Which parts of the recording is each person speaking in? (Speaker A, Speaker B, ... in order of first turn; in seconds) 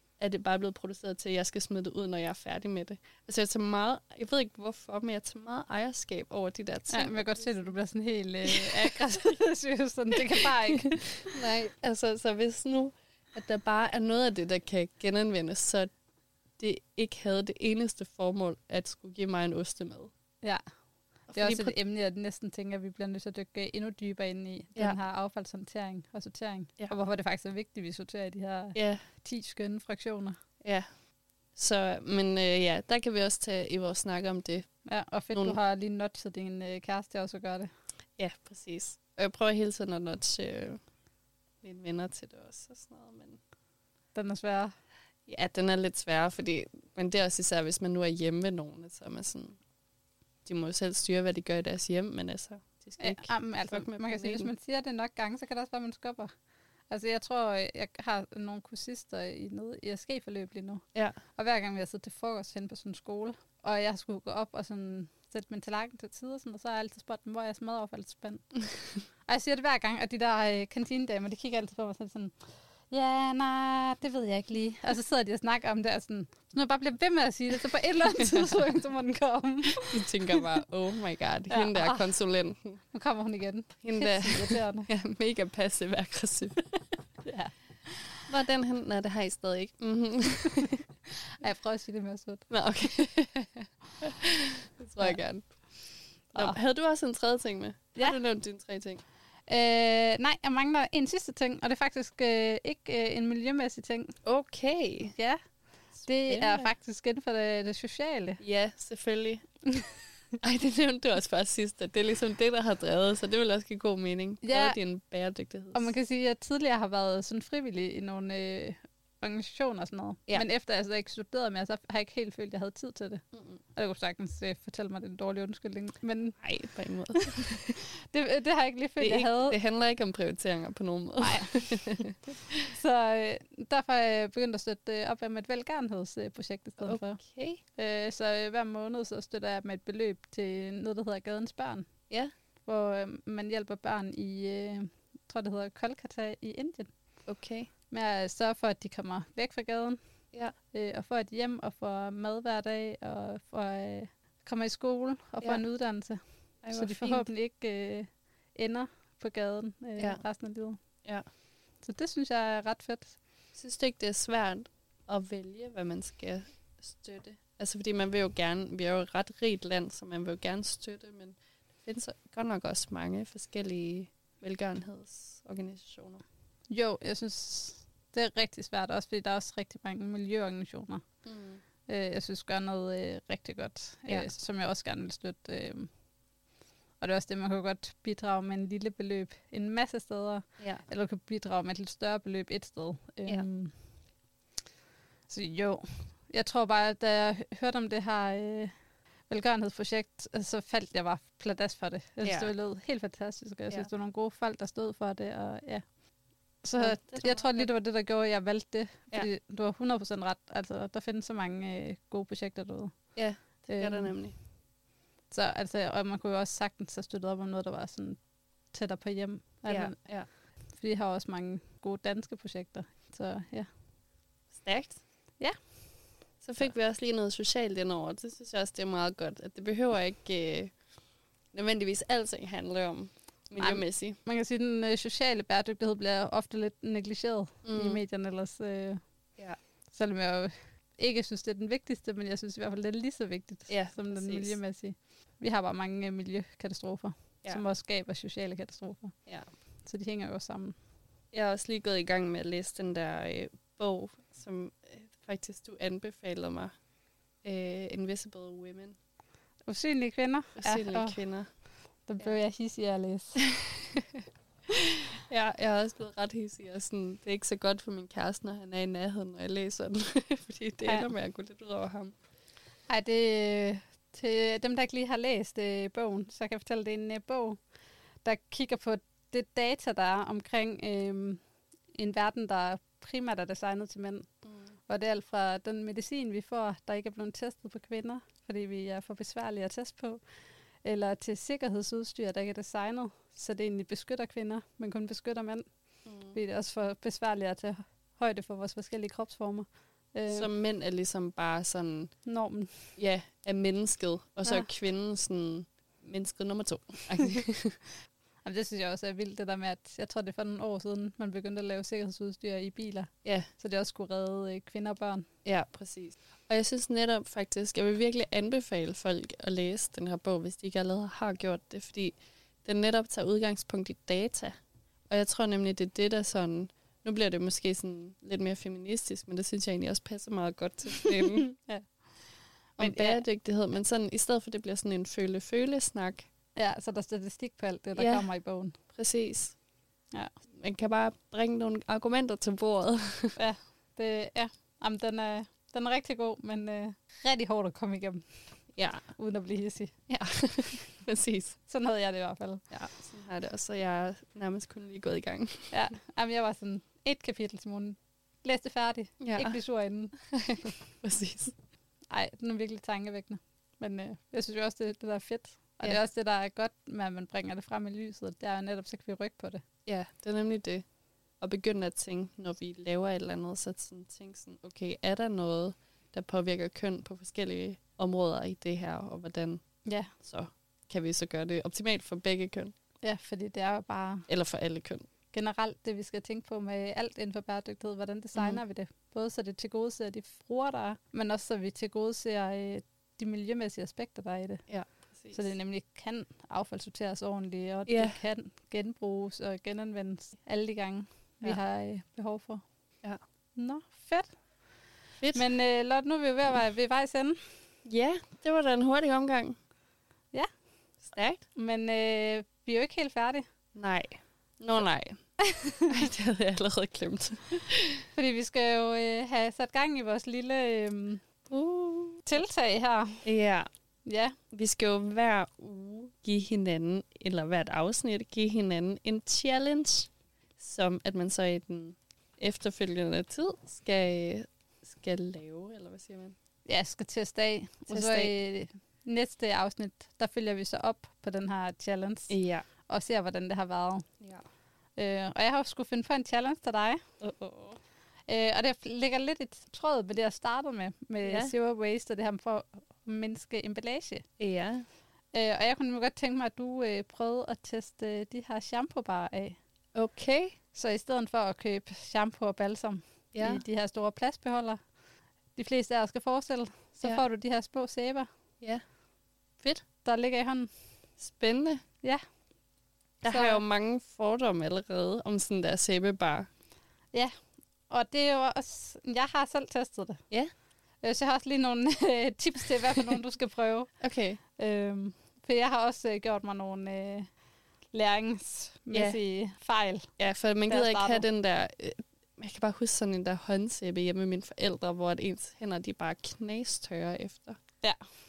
Speaker A: 0.2-7.7, 8.5-9.0, 11.3-15.9, 16.6-20.1, 21.3-21.8, 28.8-29.0, 30.6-31.0, 31.5-35.6, 38.2-40.8, 41.6-43.4, 45.3-49.6, 50.5-54.5, 79.9-82.8, 83.8-87.0, 88.3-90.8, 92.5-99.0, 104.2-105.1, 106.3-106.7, 108.4-109.4, 110.4-115.9, 123.3-123.6, 126.4-127.8, 129.0-132.6, 136.8-137.6, 147.3-147.7, 156.6-157.3, 160.0-160.2, 163.6-176.2, 181.2-181.6, 190.6-190.8, 202.2-202.5, 206.8-207.7, 213.1-214.3, 219.7-220.3, 224.5-225.0, 226.4-230.8, 231.5-234.2, 237.6-238.0, 243.7-244.6, 251.3-256.7, 257.4-259.0, 260.6-261.5, 263.9-264.2, 265.3-272.1, 296.1-296.4, 300.3-302.2, 302.9-307.8, 313.2-313.5, 315.4-324.5, 325.1-331.5, 332.8-336.2, 338.0-339.6, 340.5-343.4, 348.8-349.1, 350.1-351.6, 352.7-355.7, 359.2-359.6, 360.1-361.5, 369.9-370.8, 371.4-382.7, 384.3-385.0, 388.4-388.6, 394.7-395.5, 397.9-398.2, 405.2-405.5, 407.9-409.6, 411.0-411.4, 413.8-415.2, 415.9-418.1, 421.5-422.2, 423.2-423.7, 424.5-436.4, 437.9-438.3, 442.3-442.6, 447.2-447.8, 451.2-451.5, 454.4-454.9, 459.9-460.5, 463.3-463.6, 471.2-471.8, 473.2-476.5, 484.0-484.4, 488.9-489.2, 490.2-497.6
Speaker B: 6.9-11.3, 21.2-30.4, 34.9-37.7, 44.1-44.7, 53.0-56.3, 56.9-68.5, 69.3-80.0, 81.5-82.0, 82.9-84.9, 87.2-88.2, 91.4-92.5, 96.3-96.6, 99.5-104.2, 105.2-108.4, 114.4-114.8, 115.7-126.4, 128.1-129.6, 131.2-141.9, 142.6-146.9, 147.9-160.8, 161.8-163.2, 176.7-181.1, 181.8-185.9, 187.0-193.8, 195.3-198.7, 199.3-206.0, 206.6-214.2, 215.3-223.7, 225.4-226.7, 233.6-239.1, 239.9-249.2, 249.8-250.8, 259.7-261.2, 262.0-263.4, 270.8-271.1, 272.9-277.6, 278.2-281.4, 281.9-284.3, 284.9-290.2, 290.8-300.5, 302.3-302.9, 308.4-315.3, 331.5-333.2, 336.6-338.8, 343.4-349.9, 351.7-352.6, 355.7-360.2, 362.1-369.6, 379.9-380.1, 383.0-384.3, 385.3-402.6, 403.6-404.5, 405.3-407.4, 411.6-413.5, 415.4-415.9, 418.1-421.2, 422.3-423.2, 424.1-424.4, 436.6-444.1, 445.0-447.0, 448.3-454.2, 455.3-459.6, 460.7-464.9, 465.6-468.3, 470.0-470.7, 473.3-473.6, 477.9-480.2, 481.0-483.9, 484.6-487.3, 487.9-490.1, 490.7-491.2